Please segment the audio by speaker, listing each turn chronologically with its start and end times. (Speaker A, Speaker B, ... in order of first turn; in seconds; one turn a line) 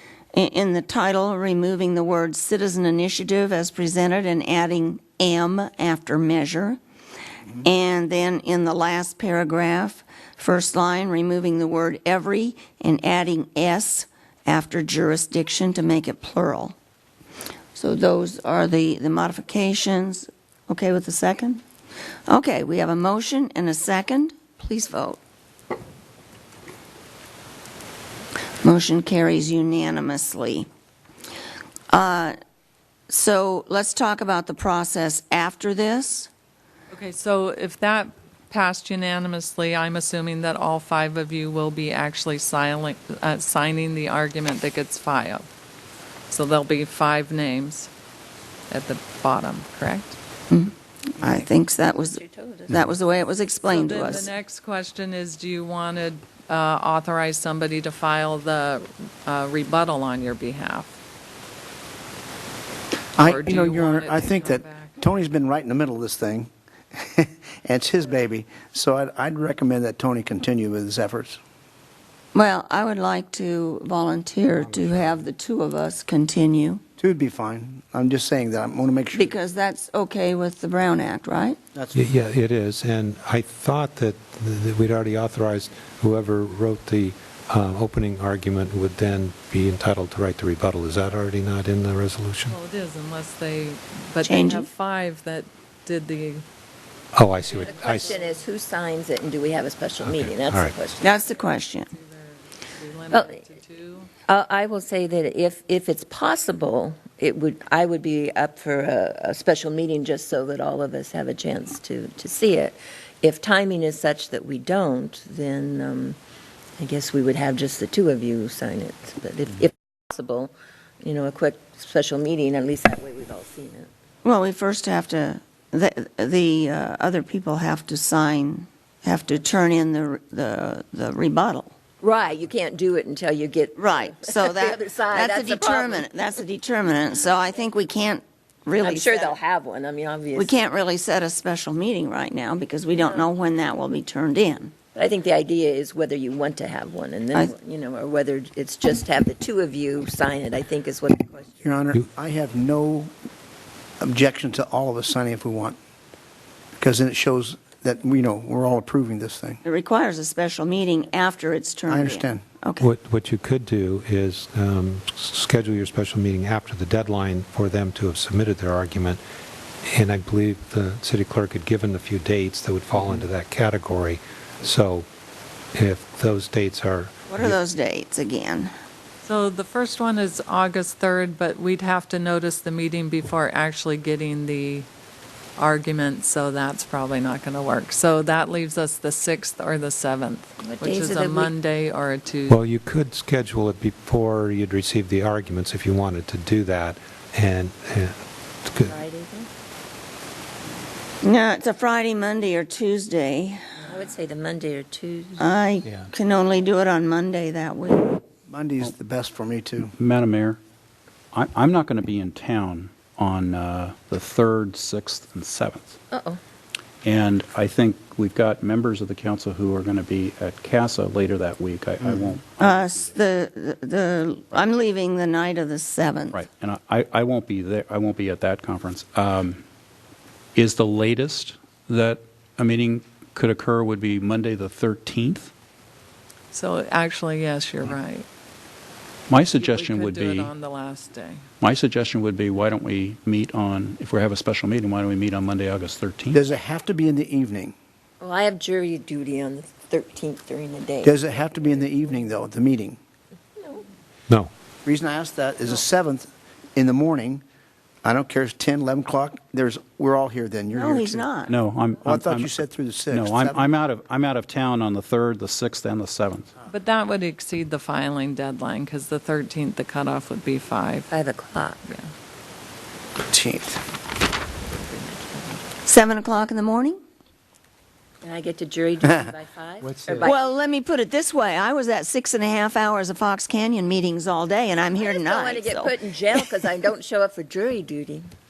Speaker A: 0.3-6.8
Speaker A: 7.6-16.8
Speaker A: 17.7-21.6
Speaker A: 22.3-25.2
Speaker A: 28.6-30.7
Speaker A: 31.9-32.4
Speaker A: 33.1-36.3
Speaker B: 36.9-45.5
Speaker B: 46.3-47.9
Speaker B: 48.7-50.2
Speaker A: 50.5-54.3
Speaker C: 51.3-52.8
Speaker B: 53.7-60.9
Speaker D: 63.2-71.4
Speaker B: 63.2-65.0
Speaker A: 72.3-76.8
Speaker E: 74.6-75.2
Speaker D: 77.0-79.3
Speaker A: 79.1-81.6
Speaker D: 81.7-82.0
Speaker E: 81.9-92.5
Speaker B: 92.5-96.4
Speaker A: 94.2-94.7
Speaker E: 97.1-98.2
Speaker B: 97.4-98.4
Speaker C: 97.6-101.1
Speaker E: 100.0-100.7
Speaker A: 101.0-101.9
Speaker B: 101.3-104.1
Speaker C: 103.1-103.4
Speaker C: 104.2-116.2
Speaker C: 116.8-123.9
Speaker A: 124.2-131.7
Speaker C: 132.0-136.1
Speaker A: 133.8-139.4
Speaker C: 138.8-140.5
Speaker A: 140.3-144.7
Speaker C: 144.9-151.6
Speaker D: 151.6-153.1
Speaker D: 154.0-155.8
Speaker D: 156.8-159.6
Speaker A: 159.6-162.9
Speaker D: 161.9-162.4
Speaker E: 162.8-169.2
Speaker E: 169.9-175.1
Speaker E: 175.7-177.6
Speaker A: 177.3-178.7
Speaker B: 179.2-184.9
Speaker B: 185.6-192.6
Speaker C: 190.6-191.5
Speaker E: 192.5-198.2
Speaker E: 198.7-198.9
Speaker C: 198.8-199.5
Speaker A: 201.2-203.7
Speaker C: 203.8-205.4
Speaker A: 205.4-208.2
Speaker D: 208.5-209.9
Speaker F: 209.8-210.6
Speaker F: 211.3-216.0
Speaker C: 216.1-216.4
Speaker F: 217.0-223.1
Speaker A: 222.6-226.4
Speaker F: 226.3-229.6
Speaker F: 230.5-235.5
Speaker B: 236.5-238.2
Speaker F: 239.3-240.5
Speaker B: 239.5-241.5
Speaker F: 241.6-246.4
Speaker D: 246.3-247.7
Speaker C: 248.2-252.2
Speaker D: 251.0-253.0
Speaker C: 253.6-253.8
Speaker D: 254.8-257.4
Speaker D: 258.0-261.3
Speaker A: 260.7-261.5
Speaker F: 261.5-266.5
Speaker D: 262.0-263.7
Speaker B: 266.7-271.1
Speaker C: 271.1-271.8
Speaker D: 273.3-273.8
Speaker C: 274.7-275.6
Speaker A: 275.9-277.0
Speaker C: 278.2-280.4
Speaker E: 279.8-280.3
Speaker A: 280.2-286.4
Speaker C: 285.0-288.3